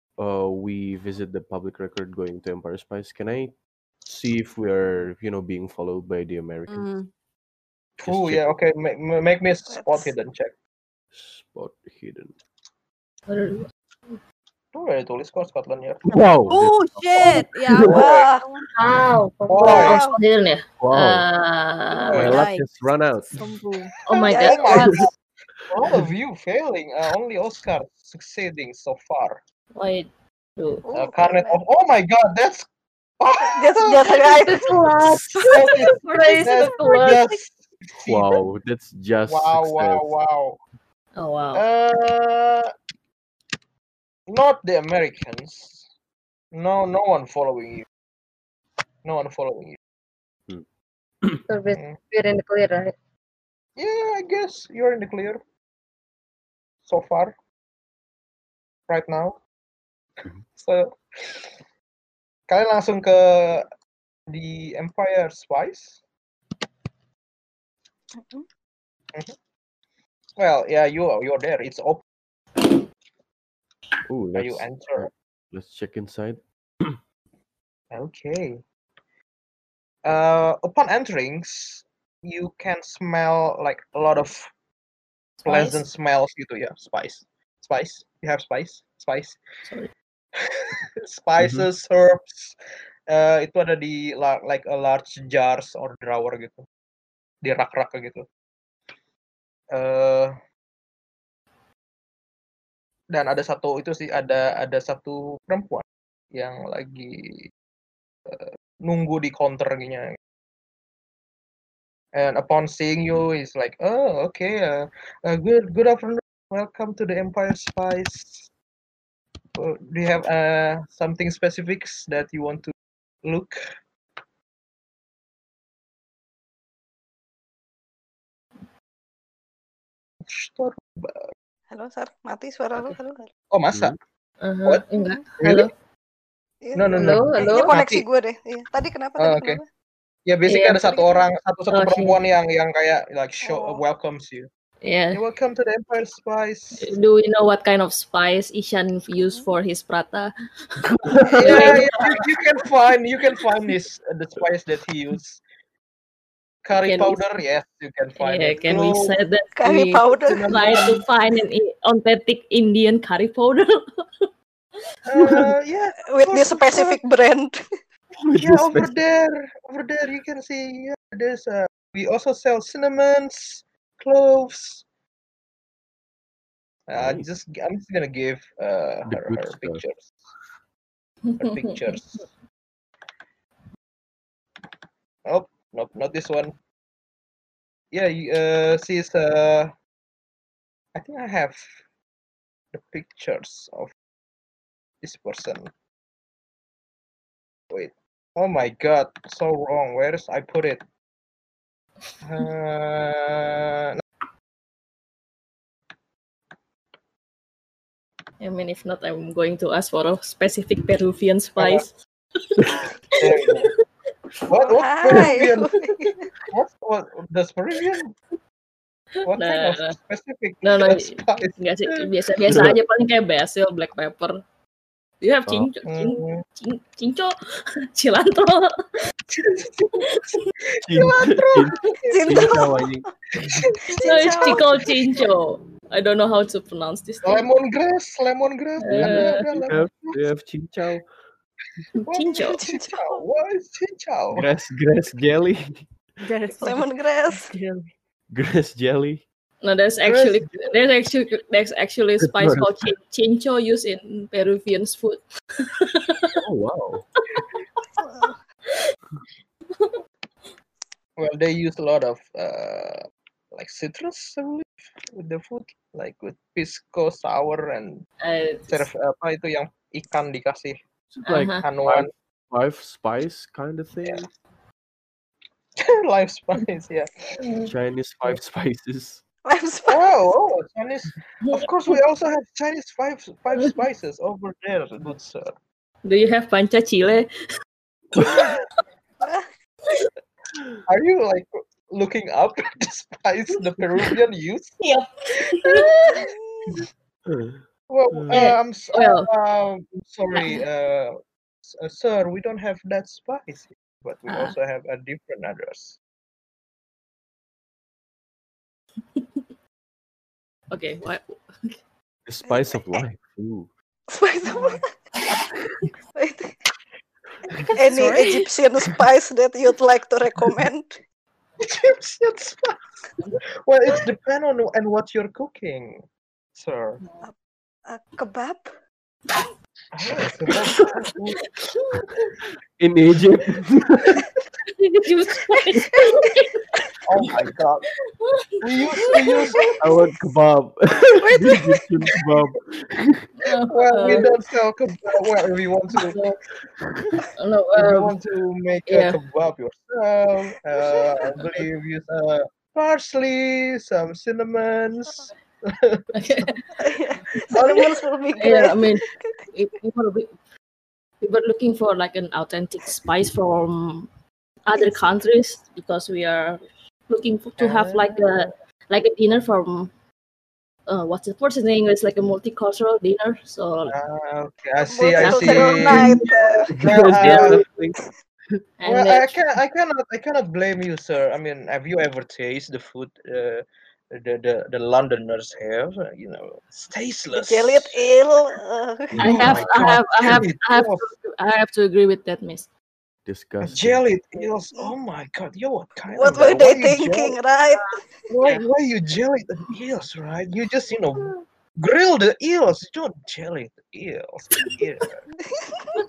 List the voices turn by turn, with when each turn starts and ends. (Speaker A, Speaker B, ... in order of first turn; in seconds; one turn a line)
Speaker A: 0.2-6.9
Speaker B: 6.7-7.1
Speaker C: 8.0-10.5
Speaker A: 8.0-8.6
Speaker D: 9.7-10.1
Speaker A: 11.1-12.4
Speaker E: 13.3-14.2
Speaker C: 14.7-16.0
Speaker A: 16.1-18.1
Speaker B: 16.5-18.2
Speaker D: 17.9-18.5
Speaker C: 17.9-18.2
Speaker F: 18.8-20.1
Speaker C: 19.5-20.0
Speaker E: 19.6-22.4
Speaker D: 19.6-20.2
Speaker A: 20.8-21.3
Speaker B: 22.0-22.7
Speaker C: 22.1-22.4
Speaker A: 22.1-23.6
Speaker B: 23.2-23.9
Speaker E: 24.1-25.0
Speaker C: 24.1-25.1
Speaker D: 24.3-24.9
Speaker A: 24.7-25.0
Speaker C: 25.7-29.4
Speaker E: 29.7-30.8
Speaker D: 30.9-31.6
Speaker C: 30.9-32.7
Speaker C: 33.2-34.3
Speaker D: 33.4-34.8
Speaker F: 34.3-36.6
Speaker E: 35.4-37.3
Speaker C: 35.5-38.4
Speaker A: 38.1-40.1
Speaker C: 39.3-40.6
Speaker E: 41.2-41.6
Speaker C: 41.5-42.7
Speaker C: 44.3-45.9
Speaker C: 46.5-47.9
Speaker C: 49.0-49.8
Speaker F: 51.5-52.9
Speaker C: 53.8-55.4
Speaker C: 56.9-57.4
Speaker C: 58.9-59.4
Speaker C: 60.5-61.4
Speaker C: 62.5-63.7
Speaker C: 64.3-66.0
Speaker D: 68.2-68.5
Speaker C: 70.4-72.0
Speaker A: 74.1-77.0
Speaker C: 74.3-75.1
Speaker C: 77.9-78.6
Speaker C: 80.0-84.5
Speaker E: 85.4-85.8
Speaker C: 85.5-89.4
Speaker E: 89.7-89.9
Speaker C: 91.0-92.5
Speaker A: 91.4-91.7
Speaker C: 93.1-96.7
Speaker C: 97.4-98.2
Speaker C: 99.7-100.3
Speaker C: 103.1-107.5
Speaker C: 108.3-110.2
Speaker C: 112.1-118.5
Speaker C: 119.6-122.7
Speaker C: 123.2-123.6
Speaker C: 130.3-131.3
Speaker D: 131.7-133.3
Speaker C: 133.5-134.0
Speaker A: 133.7-134.0
Speaker E: 134.4-135.7
Speaker C: 135.4-135.7
Speaker D: 136.6-139.7
Speaker C: 136.8-138.1
Speaker F: 136.9-137.8
Speaker C: 139.2-139.6
Speaker C: 140.3-144.5
Speaker E: 140.5-140.9
Speaker E: 141.7-142.2
Speaker D: 143.4-143.8
Speaker E: 144.8-145.2
Speaker C: 145.1-146.9
Speaker E: 146.8-150.3
Speaker A: 150.8-151.8
Speaker E: 151.3-152.2
Speaker C: 151.4-155.4
Speaker C: 156.7-159.2
Speaker E: 156.8-157.2
Speaker E: 158.2-164.0
Speaker D: 159.6-160.5
Speaker C: 160.2-161.1
Speaker C: 165.1-167.0
Speaker A: 165.2-165.5
Speaker D: 166.1-167.6
Speaker A: 168.2-169.0
Speaker C: 168.4-174.8
Speaker C: 176.9-180.1
Speaker A: 176.9-177.3
Speaker A: 179.1-179.8
Speaker E: 181.3-182.0
Speaker C: 181.4-182.3
Speaker C: 185.3-186.6
Speaker C: 187.9-189.7
Speaker C: 190.9-191.7
Speaker C: 192.7-193.9
Speaker C: 195.0-195.7
Speaker C: 197.7-200.8
Speaker C: 202.2-204.0
Speaker E: 208.4-211.9
Speaker C: 211.6-211.9
Speaker E: 212.6-213.7
Speaker C: 213.2-213.7
Speaker C: 214.5-215.7
Speaker D: 214.5-216.2
Speaker C: 216.5-218.1
Speaker C: 219.2-222.1
Speaker E: 219.3-219.9
Speaker E: 220.6-224.4
Speaker A: 222.5-222.8
Speaker E: 225.2-227.4
Speaker C: 225.9-226.4
Speaker E: 227.9-228.7
Speaker C: 229.3-230.1
Speaker E: 230.2-230.5
Speaker A: 230.8-233.6
Speaker C: 230.9-232.6
Speaker D: 232.1-232.9
Speaker D: 233.9-235.2
Speaker E: 234.0-237.5
Speaker C: 237.2-240.2
Speaker E: 238.8-239.4
Speaker A: 238.9-241.1
Speaker E: 242.0-242.6
Speaker C: 242.1-244.5
Speaker D: 242.3-243.2
Speaker A: 244.3-245.9
Speaker B: 246.2-247.8
Speaker D: 246.6-247.5
Speaker A: 248.3-249.2
Speaker E: 249.6-256.4
Speaker C: 250.1-250.7
Speaker A: 252.2-252.9
Speaker A: 256.3-257.1
Speaker E: 257.3-257.8
Speaker D: 258.0-258.4
Speaker C: 261.2-268.1
Speaker E: 268.2-268.9
Speaker C: 268.7-270.8
Speaker A: 271.1-274.3
Speaker E: 271.3-271.6
Speaker C: 271.6-272.1
Speaker C: 275.8-277.4
Speaker E: 277.4-277.7
Speaker A: 277.6-279.2
Speaker D: 279.5-280.1
Speaker C: 279.9-285.5
Speaker E: 286.0-287.3
Speaker C: 288.2-288.5
Speaker D: 289.2-289.5
Speaker C: 290.9-294.8
Speaker E: 294.8-296.3
Speaker C: 295.5-295.9
Speaker D: 296.1-296.8
Speaker A: 297.3-298.5
Speaker C: 297.9-301.1
Speaker E: 298.3-299.3
Speaker E: 300.3-300.6
Speaker C: 301.7-306.0
Speaker E: 304.3-304.6
Speaker E: 309.2-309.4
Speaker E: 310.7-311.8
Speaker A: 312.3-313.7
Speaker D: 312.5-313.0
Speaker D: 314.1-314.9
Speaker D: 316.2-316.6
Speaker D: 317.8-321.0
Speaker B: 317.9-318.5
Speaker C: 321.6-322.8
Speaker C: 323.7-326.0
Speaker C: 326.6-327.0
Speaker E: 327.0-327.3
Speaker D: 327.9-328.7
Speaker C: 329.9-331.4
Speaker A: 332.8-334.2
Speaker E: 334.8-336.6
Speaker D: 335.5-336.3
Speaker C: 337.1-337.9
Speaker E: 338.2-339.7
Speaker C: 338.6-339.6
Speaker A: 339.8-343.3
Speaker D: 341.2-341.6
Speaker E: 343.4-344.3
Speaker C: 343.7-346.2
Speaker E: 345.9-346.4
Speaker A: 346.8-347.1
Speaker E: 347.4-348.1
Speaker C: 347.8-356.1
Speaker E: 348.9-349.2
Speaker E: 356.1-356.6
Speaker D: 356.8-359.5
Speaker E: 357.3-357.7
Speaker C: 357.5-357.8
Speaker E: 358.4-360.3
Speaker E: 361.2-364.1
Speaker E: 364.7-369.9
Speaker C: 367.6-368.5
Speaker E: 370.9-373.9
Speaker C: 373.9-376.2
Speaker D: 374.9-376.7
Speaker E: 375.2-376.2
Speaker A: 376.7-378.0
Speaker C: 376.8-377.6
Speaker E: 378.8-379.4
Speaker C: 378.9-388.0
Speaker D: 387.3-389.2
Speaker A: 389.1-389.9
Speaker C: 389.2-391.1
Speaker E: 389.2-392.7
Speaker A: 393.2-394.0
Speaker C: 393.6-397.4
Speaker D: 396.1-398.1
Speaker C: 398.3-405.2
Speaker D: 405.4-405.9